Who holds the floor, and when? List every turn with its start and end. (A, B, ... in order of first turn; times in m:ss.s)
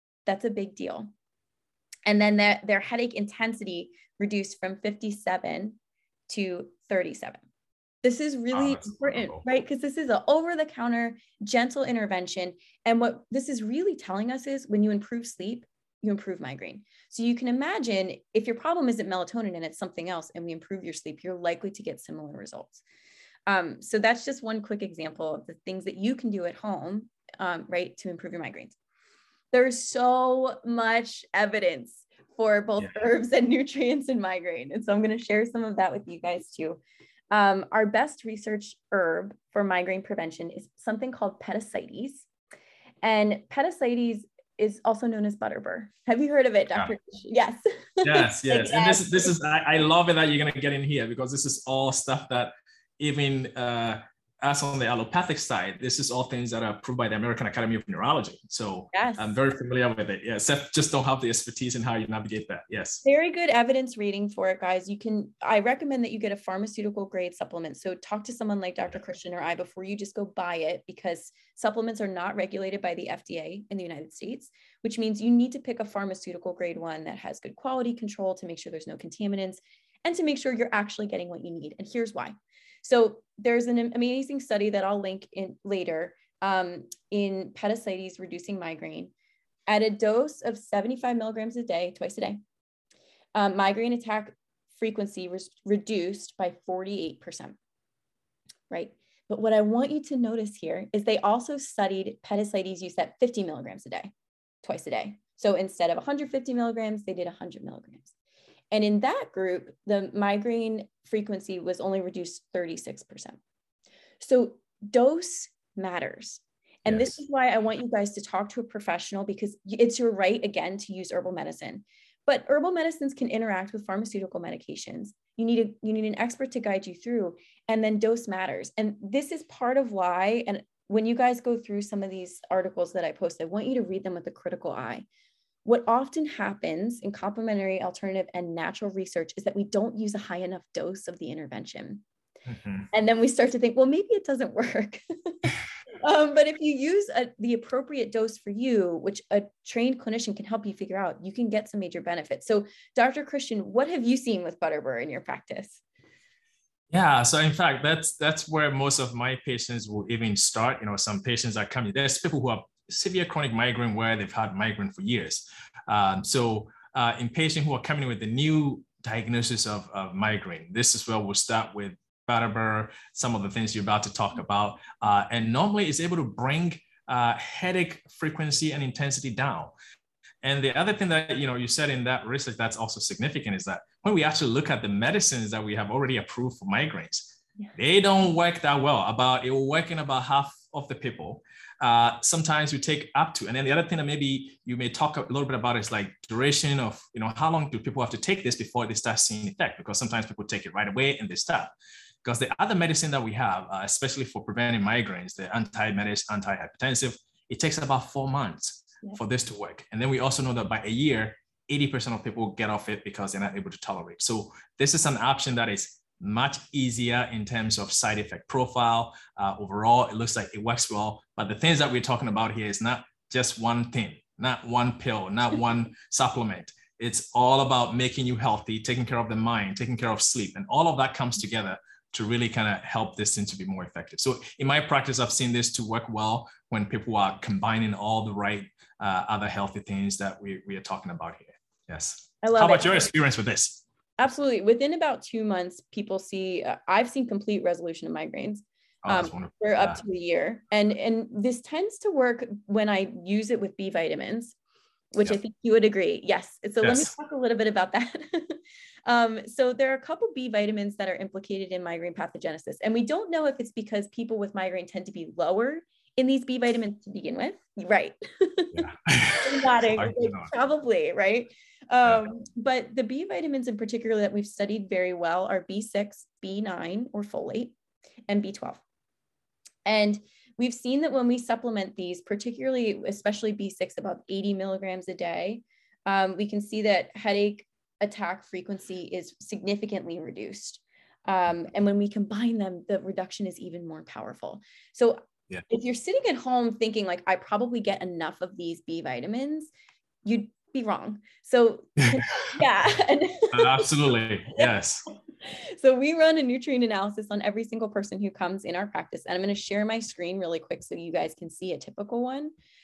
0:00.2-0:01.1 A
0:02.0-0:05.8 A
0:06.3-0:07.4 A
0:08.0-0:22.8 A
0:08.5-0:09.4 B
0:23.5-0:28.8 A
0:29.5-0:42.3 A
0:43.0-0:49.3 A
0:48.0-1:03.0 B
0:58.9-0:59.3 A
1:03.0-1:29.1 A
1:29.7-1:32.4 A
1:33.3-1:37.6 A
1:38.7-1:44.1 A
1:44.6-1:48.1 A
1:48.7-1:53.4 A
1:54.2-2:15.0 A
1:56.8-1:57.1 B
2:15.6-2:22.0 A
2:22.5-2:22.9 B
2:22.9-2:35.8 A
2:36.9-2:59.7 B
3:00.4-3:21.7 B
3:22.2-4:03.8 B
4:02.4-4:03.1 A
4:04.2-4:14.6 A
4:09.0-4:10.0 B
4:15.1-4:37.7 A
4:16.8-4:17.1 B
4:28.7-4:30.5 B
4:38.3-4:38.8 A
4:39.8-4:59.7 A
5:00.2-5:03.9 A
5:02.1-5:02.6 B
5:03.5-5:05.0 B
5:05.4-5:12.5 A